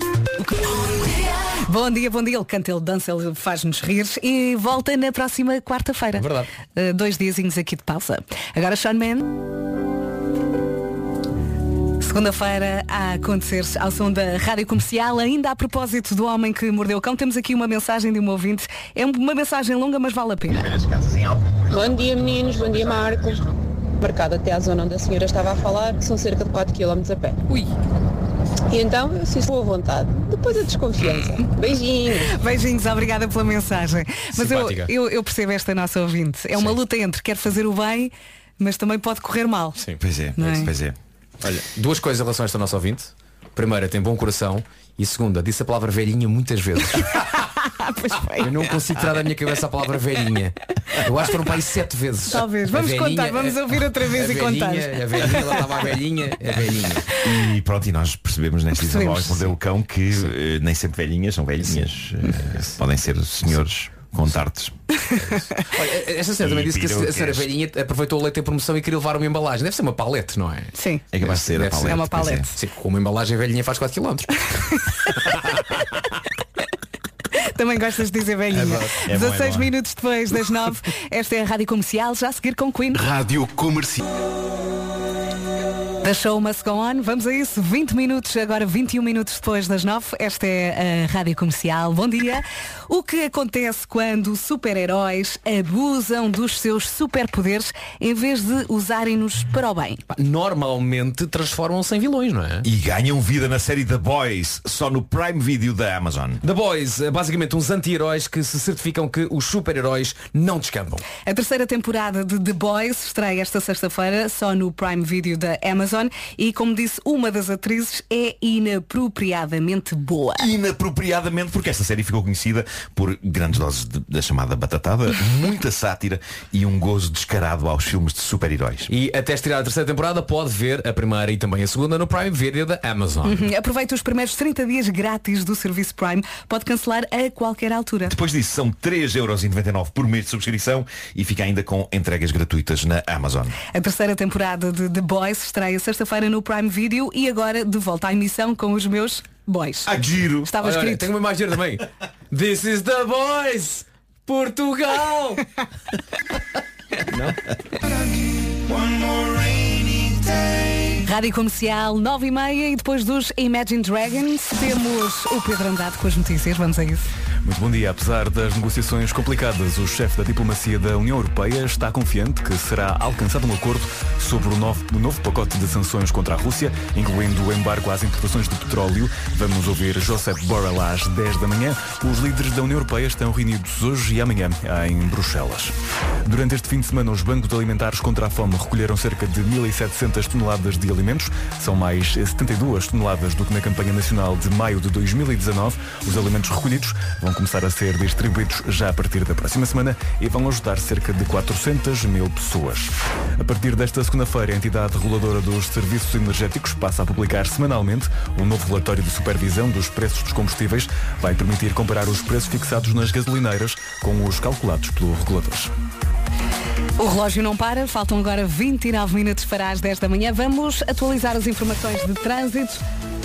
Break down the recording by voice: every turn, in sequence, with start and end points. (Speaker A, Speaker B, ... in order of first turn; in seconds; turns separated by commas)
Speaker A: 0.4-9.4, Speaker B: 6.2-6.5, Speaker A: 12.0-20.7, Speaker C: 20.7-21.4, Speaker D: 21.7-27.4, Speaker D: 28.7-32.4, Speaker A: 32.2-39.8, Speaker B: 34.4-34.9, Speaker C: 40.0-41.0, Speaker A: 40.4-40.7, Speaker B: 41.4-47.2, Speaker A: 47.6-48.5, Speaker B: 48.4-57.1, Speaker A: 52.3-55.6, Speaker C: 57.2-65.1, Speaker A: 58.8-59.4, Speaker B: 65.6-74.5, Speaker C: 66.4-67.5, Speaker A: 70.8-71.0, Speaker C: 71.1-72.5, Speaker A: 71.8-72.5, Speaker A: 77.3-83.0, Speaker C: 78.6-79.7, Speaker C: 83.2-84.0, Speaker A: 86.0-100.0, Speaker B: 100.1-102.7, Speaker C: 102.6-106.4, Speaker B: 106.4-111.1, Speaker A: 111.2-120.5, Speaker C: 120.4-128.9, Speaker B: 128.9-133.5, Speaker A: 133.2-138.2, Speaker C: 138.1-143.6, Speaker A: 143.7-149.9, Speaker C: 149.9-150.5, Speaker A: 150.4-151.1, Speaker B: 150.6-155.4, Speaker B: 157.1-157.4, Speaker C: 158.7-160.4, Speaker A: 161.0-167.1, Speaker E: 167.4-215.7, Speaker A: 217.0-222.8